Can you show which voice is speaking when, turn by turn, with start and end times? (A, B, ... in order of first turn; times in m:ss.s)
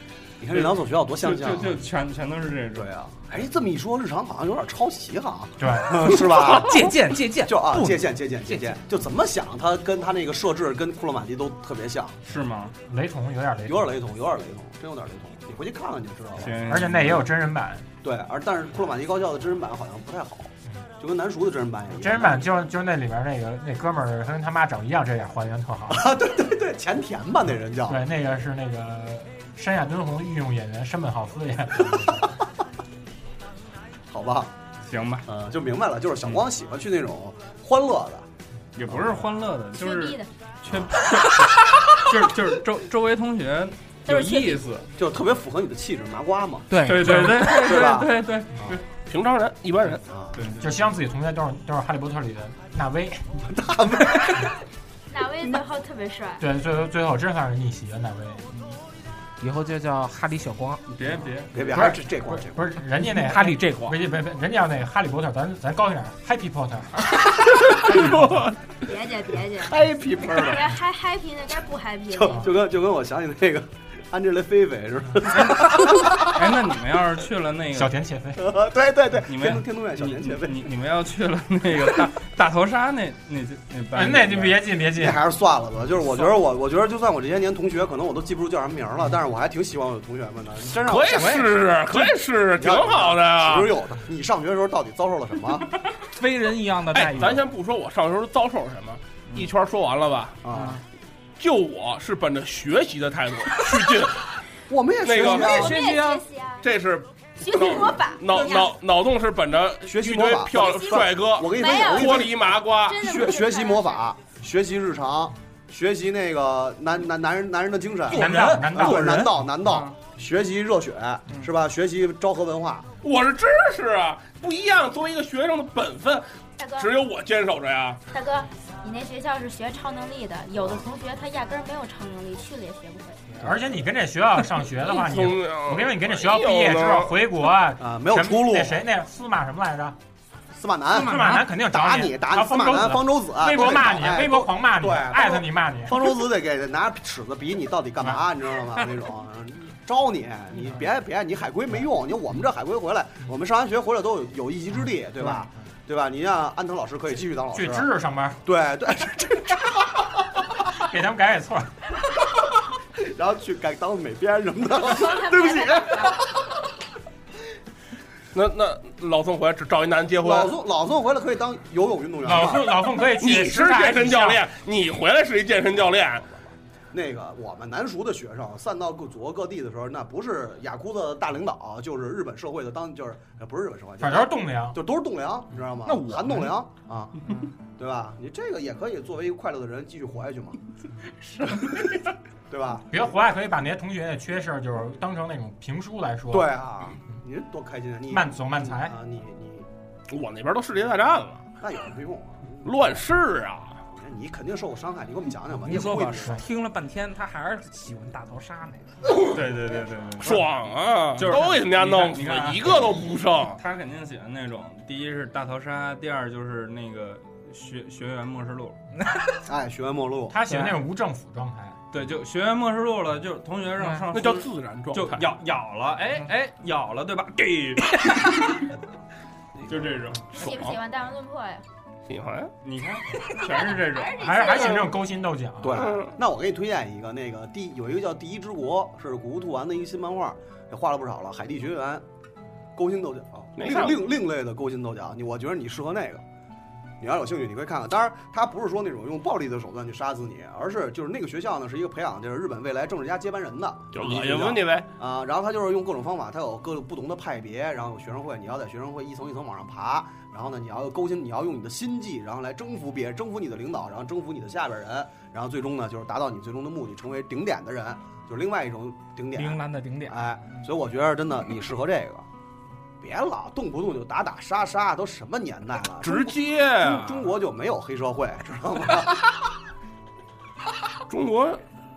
0:00.4-0:01.8 A
0:00.5-0:02.9 B
0:02.8-0:06.8 A
0:05.6-0:06.1 C
0:06.4-0:08.8 D
0:07.4-0:12.2 A
0:12.2-0:12.8 B
0:12.9-0:14.0 C
0:13.7-0:16.6 A
0:16.4-0:17.2 B
0:16.7-0:17.9 C
0:18.0-0:22.4 A
0:22.0-0:26.1 C
0:25.9-0:28.0 A
0:27.9-0:32.3 C
0:34.1-0:34.5 A
0:34.8-0:35.3 B
0:35.3-0:38.3 A
0:38.8-0:44.9 B
0:38.9-0:39.2 A
0:39.7-0:40.3 E
0:40.7-0:41.2 A
0:44.1-0:44.6 E
0:45.0-0:48.8 A
0:46.7-0:47.7 D
0:46.8-0:48.8 B
0:49.1-0:50.0 F
0:50.1-0:50.4 A
0:50.3-0:50.7 B
0:50.6-0:53.4 C
0:53.5-0:54.6 A
0:55.1-0:56.4 E
0:56.4-0:58.5 C
0:58.5-0:58.8 D
0:59.4-1:00.8 D
1:00.9-1:01.6 B
1:01.5-1:02.7 A
1:01.7-1:07.2 C
1:03.0-1:04.0 D
1:07.4-1:08.7 F
1:08.8-1:09.8 E
1:09.6-1:10.7 A
1:10.4-1:12.4 E
1:12.1-1:16.4 A
1:15.4-1:17.9 B
1:17.8-1:18.4 C
1:18.4-1:20.6 A
1:19.2-1:24.6 B
1:23.9-1:25.2 C
1:25.0-1:31.6 A
1:30.8-1:33.8 F
1:31.1-1:32.1 D
1:32.6-1:35.7 A
1:36.0-1:37.4 D
1:37.0-1:40.4 F
1:40.4-1:40.8 A
1:40.5-1:40.8 D
1:41.4-1:44.2 F
1:44.7-1:45.8 A
1:45.0-1:45.8 F
1:45.2-1:46.2 D
1:45.3-1:46.7 E
1:46.6-1:53.0 F
1:47.4-1:48.7 E
1:49.9-2:02.9 A
1:50.6-1:52.3 E
1:52.8-1:54.1 E
1:58.1-1:59.3 D
1:58.1-1:59.3 C
2:03.0-2:08.0 F
2:06.6-2:07.0 E
2:08.1-2:13.2 E
2:13.4-2:20.0 C
2:14.8-2:17.2 F
2:17.8-2:18.8 A
2:20.5-2:37.9 A
2:20.9-2:21.5 D
2:21.0-2:26.0 C
2:35.2-2:35.4 D
2:37.5-2:38.4 C
2:38.4-2:40.2 A
2:40.7-2:41.7 C
2:43.0-2:46.4 A
2:44.9-2:46.3 E
2:48.3-2:50.5 F
2:50.2-2:52.8 A
2:52.2-2:54.4 C
2:53.2-2:56.3 F
2:56.4-3:10.6 A
3:04.0-3:04.8 C
3:05.8-3:06.6 D
3:12.5-3:12.9 A
3:12.9-3:16.5 C
3:16.3-3:19.7 A
3:18.1-3:19.0 C
3:20.1-3:21.5 F
3:21.6-3:23.0 A
3:22.6-3:23.8 F
3:23.9-3:26.4 A
3:25.6-3:29.1 D
3:29.2-3:30.5 B
3:30.2-3:33.6 F
3:31.2-3:38.8 B
3:39.4-3:40.4 A
3:40.3-3:41.8 C
3:40.5-3:40.8 D
3:41.9-3:48.8 B
3:43.8-3:44.1 D
3:44.1-3:45.3 F
3:49.7-3:50.5 B
3:50.4-3:51.6 E
3:50.4-3:50.7 F
3:52.1-3:52.5 F
3:52.6-3:54.3 B
3:53.4-3:54.9 E
3:54.2-3:55.9 C
3:55.6-4:02.0 A
3:55.7-3:56.2 F
4:02.8-4:06.2 A
4:03.6-4:04.1 F
4:07.0-4:32.3 A
4:13.9-4:14.9 F
4:29.3-4:30.7 D
4:33.0-4:39.5 A
4:36.0-4:37.3 F
4:41.1-4:41.6 F